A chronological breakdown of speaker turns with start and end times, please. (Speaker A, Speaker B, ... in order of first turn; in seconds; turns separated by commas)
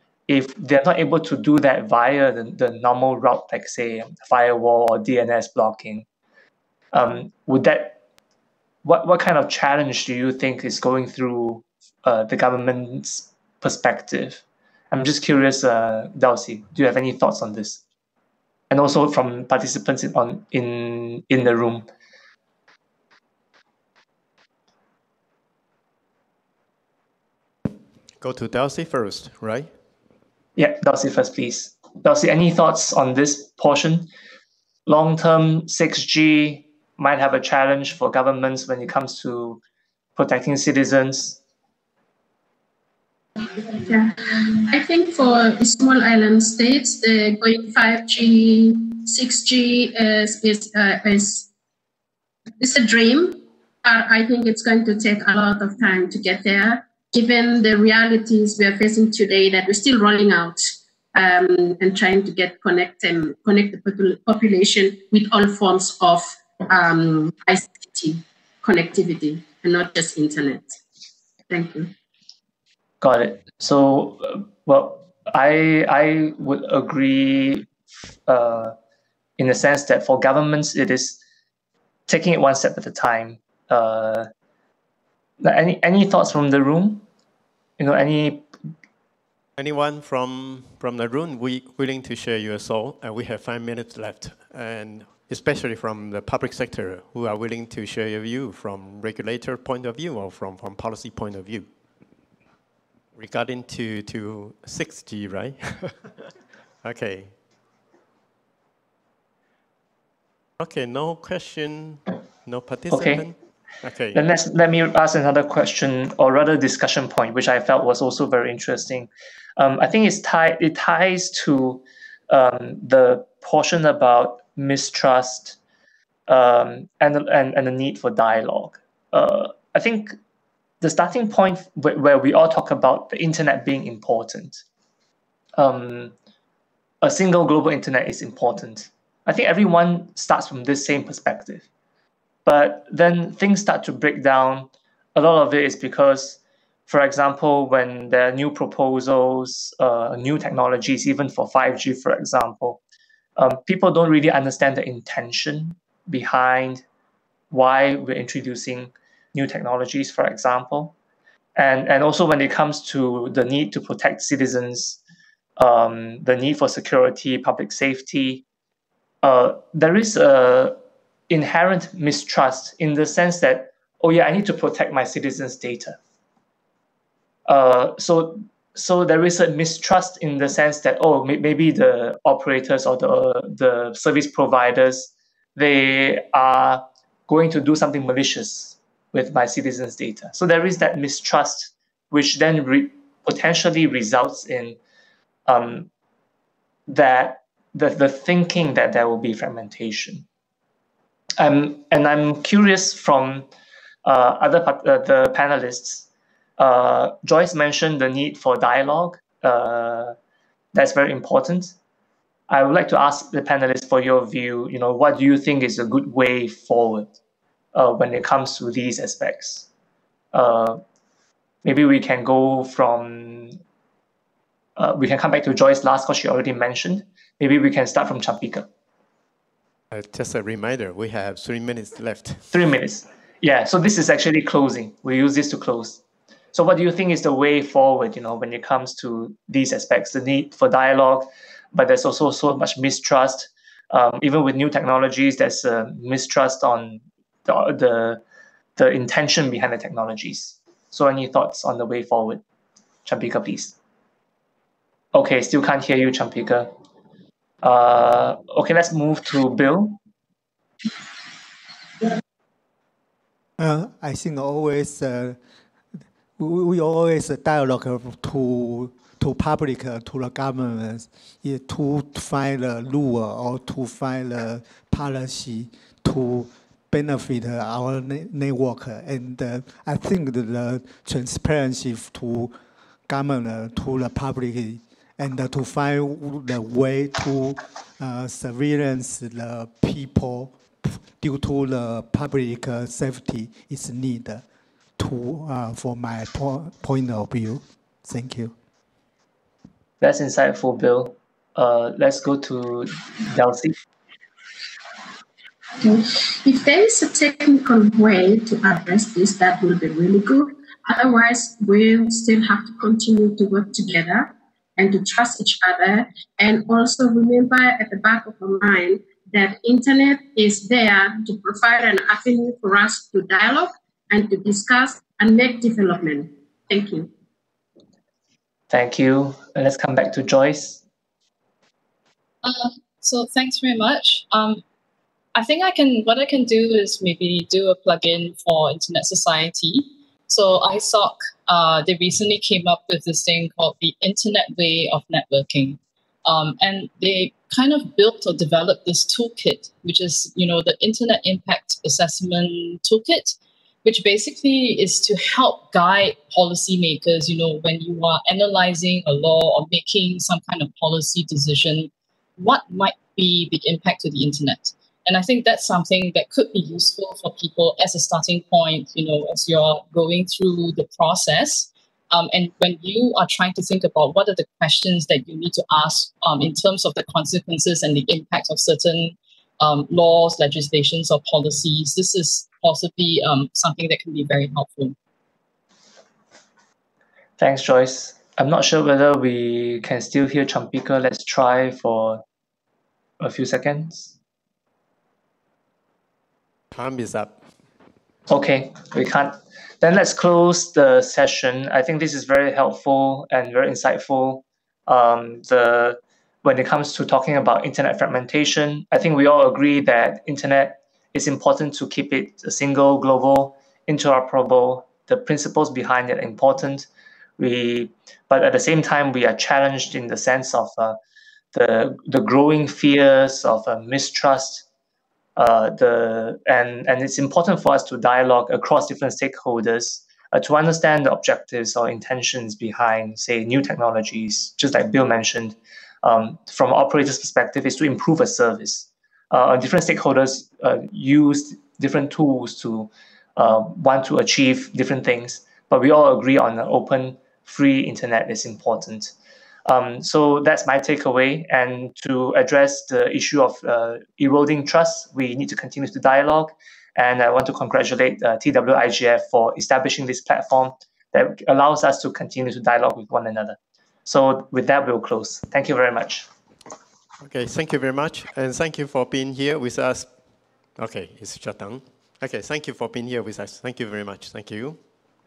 Speaker A: 0.3-6.1, Speaker A: 6.9-8.0, Speaker A: 8.8-17.8, Speaker A: 18.7-21.9, Speaker B: 28.2-29.8, Speaker A: 30.6-34.1, Speaker A: 34.9-39.6, Speaker A: 40.2-41.4, Speaker C: 43.5-51.5, Speaker C: 52.6-70.8, Speaker C: 71.5-71.9, Speaker A: 73.0-77.7, Speaker A: 78.3-78.8, Speaker A: 79.4-81.2, Speaker A: 82.1-84.3, Speaker A: 85.4-87.0, Speaker A: 87.8-88.5, Speaker B: 89.6-101.8, Speaker B: 103.2-106.2, Speaker B: 106.8-107.4, Speaker B: 110.6-114.2, Speaker A: 112.9-113.3, Speaker A: 114.1-125.6, Speaker A: 126.3-130.2, Speaker A: 130.8-134.6, Speaker A: 135.6-136.1, Speaker A: 137.0-141.7, Speaker A: 142.5-152.8, Speaker A: 153.4-156.8, Speaker A: 157.5-160.9, Speaker A: 161.6-165.0, Speaker A: 165.6-168.4, Speaker A: 169.2-170.8, Speaker A: 171.3-176.0, Speaker A: 177.5-194.8, Speaker A: 195.5-195.9, Speaker A: 196.9-200.3, Speaker A: 201.4-203.5, Speaker A: 204.1-206.1, Speaker A: 206.6-210.2, Speaker A: 210.7-211.8, Speaker A: 212.5-217.1, Speaker A: 217.7-219.7, Speaker A: 220.3-220.8, Speaker A: 221.6-223.6, Speaker A: 224.8-228.7, Speaker B: 229.9-232.5, Speaker A: 232.5-236.0, Speaker A: 236.5-248.2, Speaker A: 248.8-252.4, Speaker A: 253.1-253.8, Speaker A: 255.1-256.8, Speaker A: 257.6-260.0, Speaker D: 263.6-265.4, Speaker D: 266.4-282.6, Speaker D: 283.1-294.4, Speaker D: 295.0-298.5, Speaker A: 300.0-303.8, Speaker C: 305.8-327.1, Speaker A: 328.7-330.8, Speaker E: 332.4-334.6, Speaker E: 335.4-385.0, Speaker A: 387.4-392.2, Speaker A: 393.2-394.1, Speaker B: 396.7-397.5, Speaker A: 398.3-421.0, Speaker A: 421.5-424.7, Speaker A: 425.4-449.1, Speaker A: 449.7-466.3, Speaker B: 467.2-474.8